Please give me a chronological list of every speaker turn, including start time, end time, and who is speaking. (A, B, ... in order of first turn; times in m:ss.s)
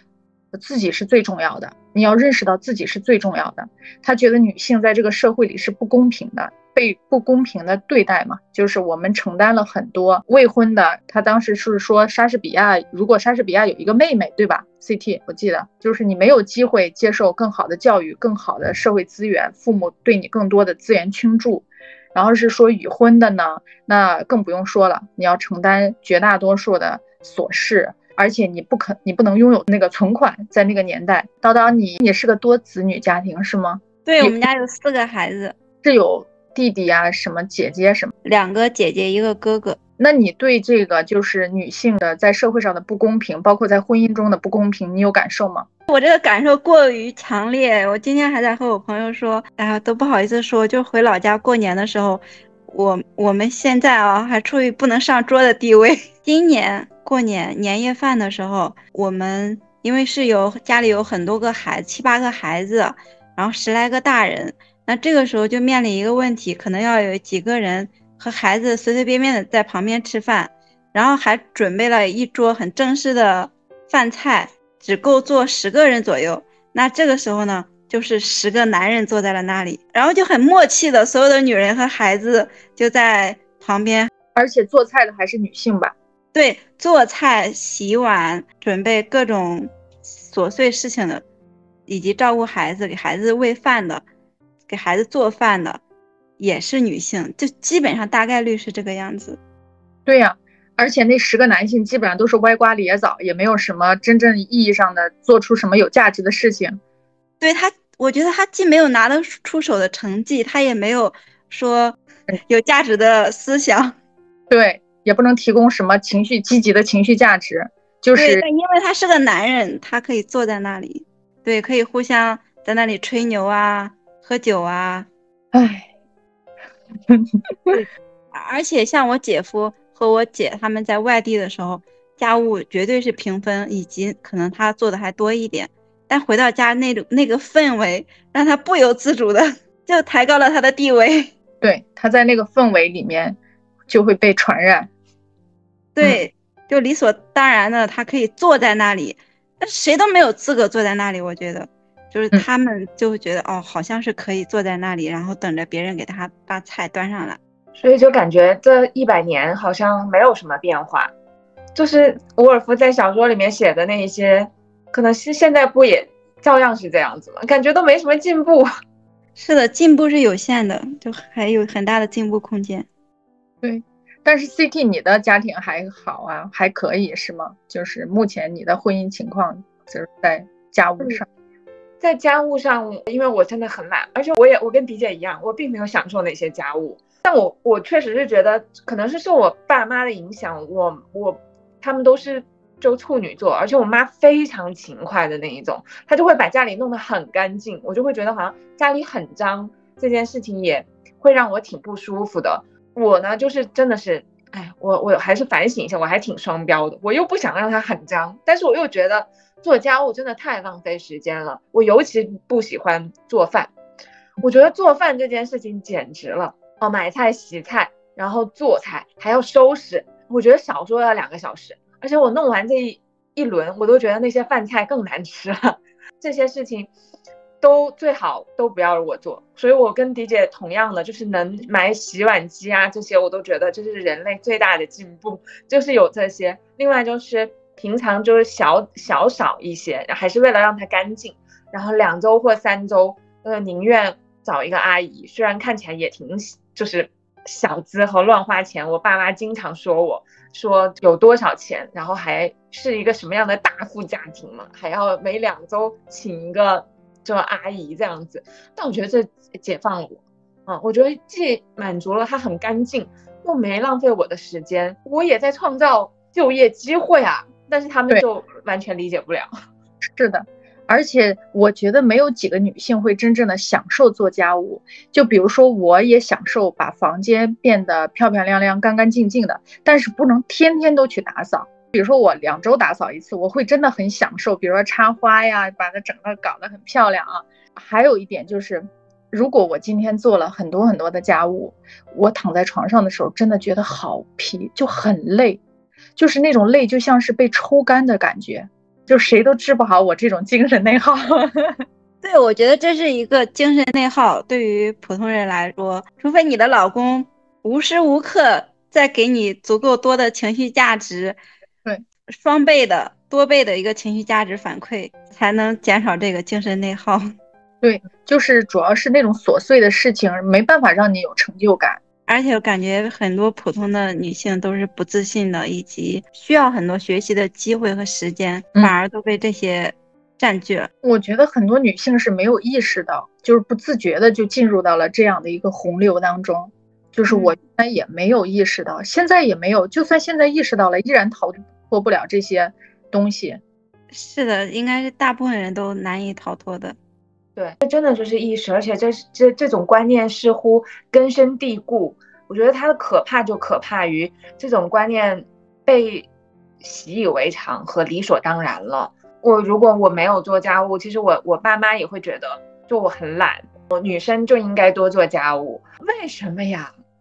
0:00.5-0:34.4 A
0:34.0-0:35.5 B
0:35.8-0:38.1 A
0:38.2-0:39.8 B
0:40.0-0:45.7 A
0:45.9-1:24.1 B
1:24.3-1:25.9 A
1:26.3-1:31.2 B
1:31.9-1:34.0 B
1:34.7-1:35.8 B
1:36.4-1:39.4 B
1:40.0-1:46.8 A
1:47.4-1:54.0 B
1:54.5-1:58.4 A
1:58.1-2:05.1 B
2:05.5-2:05.9 A
2:07.1-2:07.8 A
2:07.7-2:21.3 B
2:21.6-2:23.4 A
2:23.9-2:24.9 A
2:25.9-2:37.4 B
2:37.8-2:41.1 C
2:41.7-2:48.7 C
2:49.4-2:52.9 B
2:53.6-3:01.2 A
3:02.0-3:33.7 C
3:34.4-3:46.9 C
3:47.6-4:29.5 C
4:30.2-4:55.6 A
4:56.2-5:01.8 A
5:02.2-5:11.4 B
5:12.3-5:17.3 B
5:17.8-5:22.0 A
5:22.3-5:30.9 B
5:31.0-5:43.6 A
5:37.3-5:37.5 B
5:44.1-5:47.0 B
5:47.6-5:56.3 C
5:56.8-6:06.9 C